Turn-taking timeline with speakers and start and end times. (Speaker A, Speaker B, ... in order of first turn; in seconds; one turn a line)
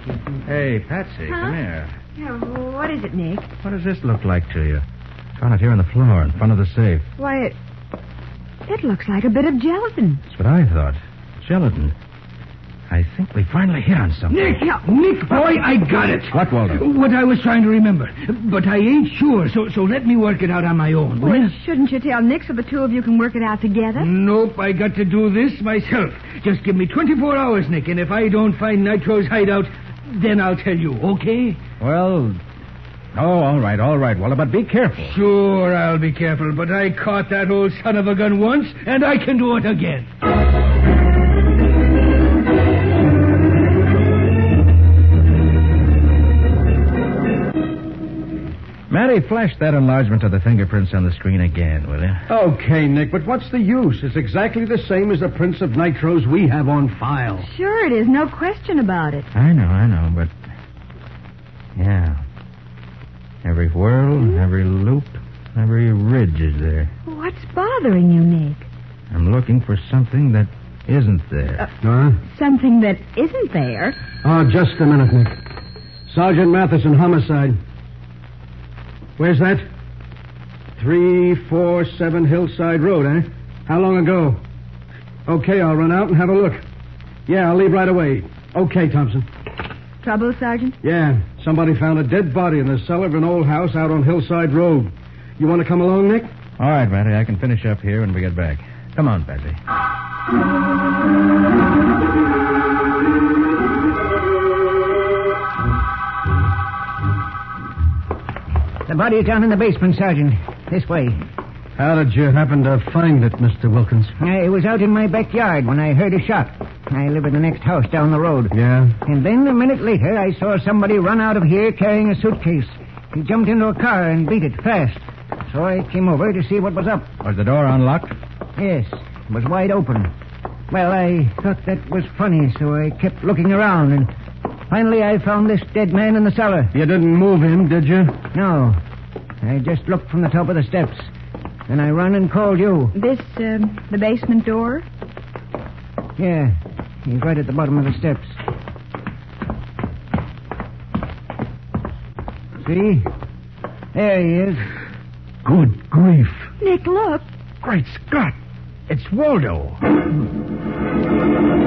Speaker A: 0.4-1.9
Speaker B: 2.1-3.5
Speaker A: 3.6-4.8
Speaker A: 5.4-7.0
Speaker B: 7.2-7.5
Speaker B: 8.7-10.2
Speaker A: 10.3-11.9
Speaker A: 12.9-14.6
Speaker C: 14.3-21.5
Speaker A: 16.3-16.8
Speaker B: 21.2-24.1
Speaker C: 23.9-31.6
Speaker A: 31.8-32.4
Speaker A: 33.1-35.1
Speaker C: 35.0-40.1
Speaker A: 48.9-52.2
Speaker D: 52.3-57.5
Speaker B: 57.4-59.3
Speaker A: 59.3-60.3
Speaker A: 61.8-62.2
Speaker A: 63.4-66.9
Speaker B: 67.0-68.7
Speaker A: 69.1-71.7
Speaker D: 71.8-72.2
Speaker B: 72.3-74.0
Speaker D: 74.2-75.4
Speaker D: 76.1-77.6
Speaker D: 79.2-79.7
Speaker D: 80.8-84.4
Speaker D: 85.2-86.6
Speaker D: 87.3-89.3
Speaker B: 90.0-90.8
Speaker D: 90.8-96.3
Speaker A: 96.6-99.6
Speaker E: 108.8-111.2
Speaker D: 111.8-114.1
Speaker E: 114.2-127.1
Speaker D: 118.5-119.0
Speaker A: 127.2-128.1
Speaker E: 128.6-130.1
Speaker E: 130.7-134.1
Speaker E: 134.7-136.7
Speaker D: 136.7-138.2
Speaker E: 138.3-138.8
Speaker E: 139.4-141.1
Speaker E: 141.7-142.9
Speaker B: 142.9-144.8
Speaker E: 146.2-148.3
Speaker E: 152.6-153.1
Speaker E: 153.9-154.7
Speaker B: 156.6-157.2
Speaker A: 157.6-158.3
Speaker A: 158.9-159.8